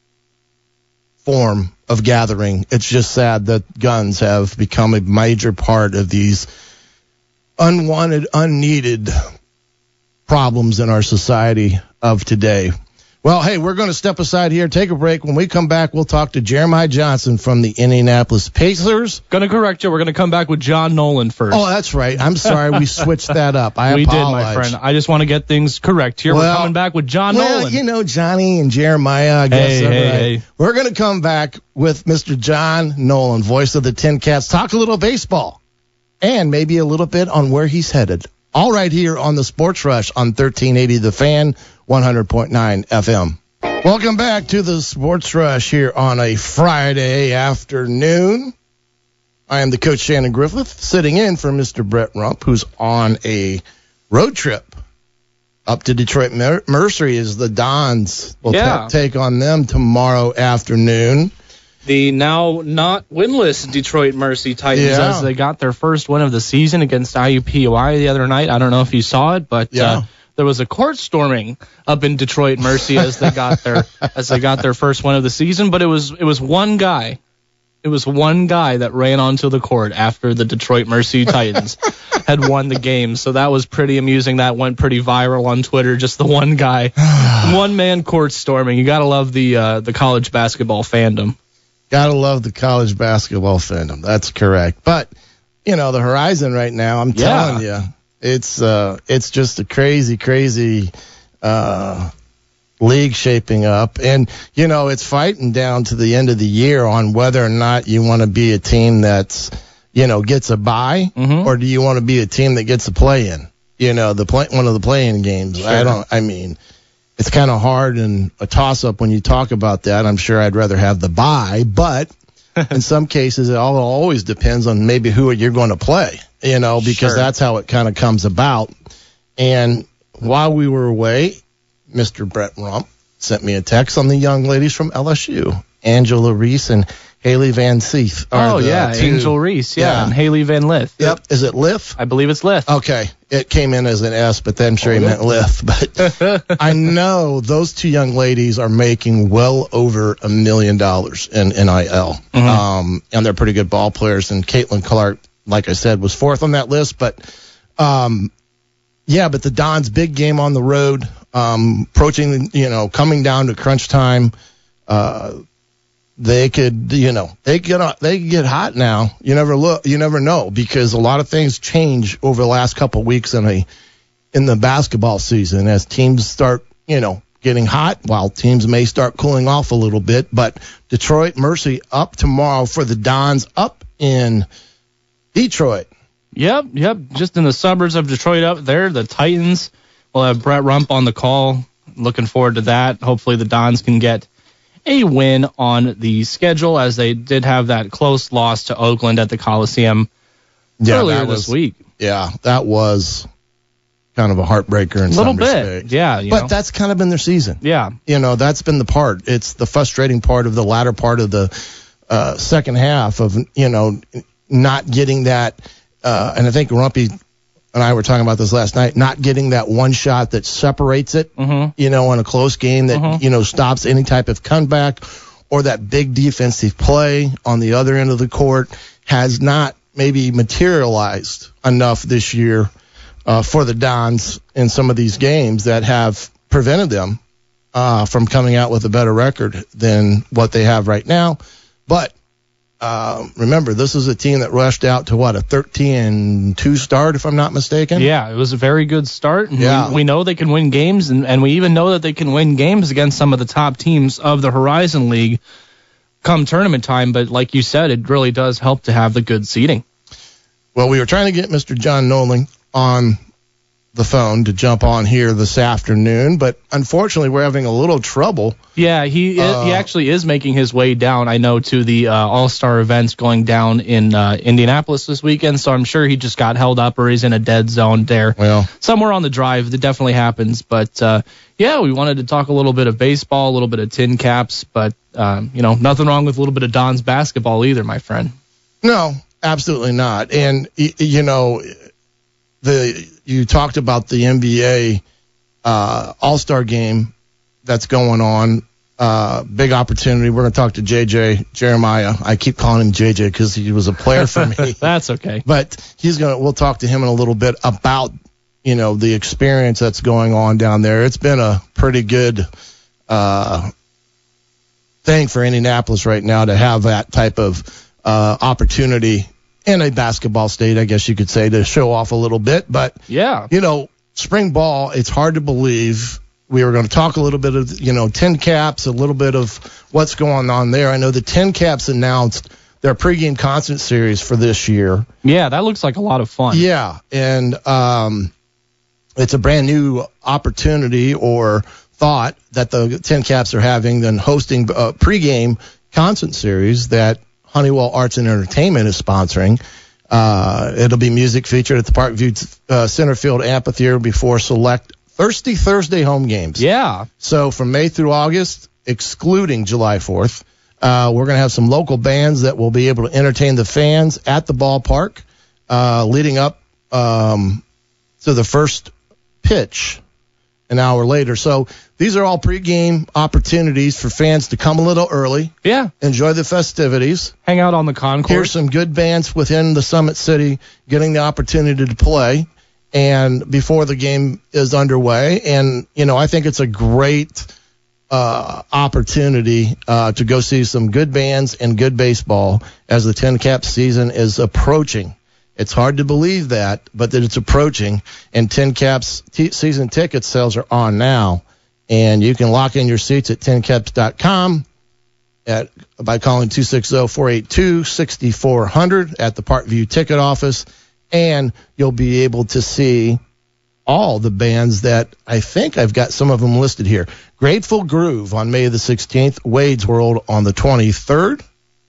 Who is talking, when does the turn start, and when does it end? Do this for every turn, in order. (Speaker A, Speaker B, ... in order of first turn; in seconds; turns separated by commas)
Speaker A: 1.2-6.5, Speaker A: 7.6-9.2, Speaker A: 10.3-19.2, Speaker B: 19.3-21.6, Speaker A: 21.5-24.8, Speaker B: 22.5-23.0, Speaker B: 23.9-27.8, Speaker A: 26.3-26.8, Speaker A: 27.3-35.6, Speaker B: 29.5-30.4, Speaker A: 36.2-48.5, Speaker A: 49.5-54.8, Speaker A: 55.7-61.3, Speaker B: 58.5-58.9, Speaker B: 61.9-77.2, Speaker A: 64.7-65.3, Speaker A: 69.7-70.0, Speaker A: 73.2-73.6, Speaker B: 77.8-91.3, Speaker A: 87.1-87.5, Speaker A: 91.9-95.1, Speaker A: 95.7-102.1, Speaker B: 97.1-97.6, Speaker A: 102.8-116.6, Speaker B: 111.2-111.5, Speaker B: 115.6-116.0, Speaker A: 117.2-122.1, Speaker A: 122.7-128.7, Speaker B: 126.8-127.3, Speaker A: 129.4-140.2, Speaker B: 138.3-141.2, Speaker A: 141.0-142.0, Speaker B: 142.0-142.7, Speaker A: 142.7-157.2, Speaker B: 144.9-145.2, Speaker B: 152.3-152.6, Speaker A: 157.8-158.3, Speaker A: 159.1-164.3, Speaker A: 164.9-165.4, Speaker A: 166.2-173.7, Speaker A: 174.3-184.5, Speaker A: 185.3-185.9, Speaker B: 186.3-194.3, Speaker B: 194.9-200.1, Speaker A: 200.8-203.3, Speaker B: 200.9-201.8, Speaker A: 204.2-217.2, Speaker B: 205.1-206.5, Speaker B: 207.6-207.9, Speaker A: 217.7-232.7, Speaker B: 221.4-221.7, Speaker B: 222.9-223.2, Speaker A: 233.3-237.2, Speaker A: 237.7-242.1, Speaker A: 242.8-248.1, Speaker B: 247.9-255.4, Speaker A: 249.6-250.0, Speaker B: 256.2-259.8, Speaker A: 260.8-263.2, Speaker A: 263.9-268.6, Speaker B: 268.8-288.3, Speaker A: 269.4-269.9, Speaker A: 278.4-278.7, Speaker A: 288.8-291.7, Speaker A: 292.6-295.0, Speaker A: 295.6-297.1, Speaker A: 297.6-304.9, Speaker B: 304.2-305.4, Speaker A: 305.4-308.1, Speaker A: 308.6-312.5, Speaker A: 313.1-313.7, Speaker A: 315.1-335.1, Speaker B: 323.1-323.5, Speaker B: 335.2-336.7, Speaker A: 336.5-338.3, Speaker A: 339.2-356.7, Speaker B: 356.6-357.1, Speaker A: 357.2-367.6, Speaker A: 368.2-370.0, Speaker A: 370.7-377.3, Speaker B: 375.6-375.9, Speaker B: 377.5-378.5, Speaker A: 378.2-387.5, Speaker A: 388.1-404.7, Speaker A: 405.5-413.2, Speaker A: 413.9-421.4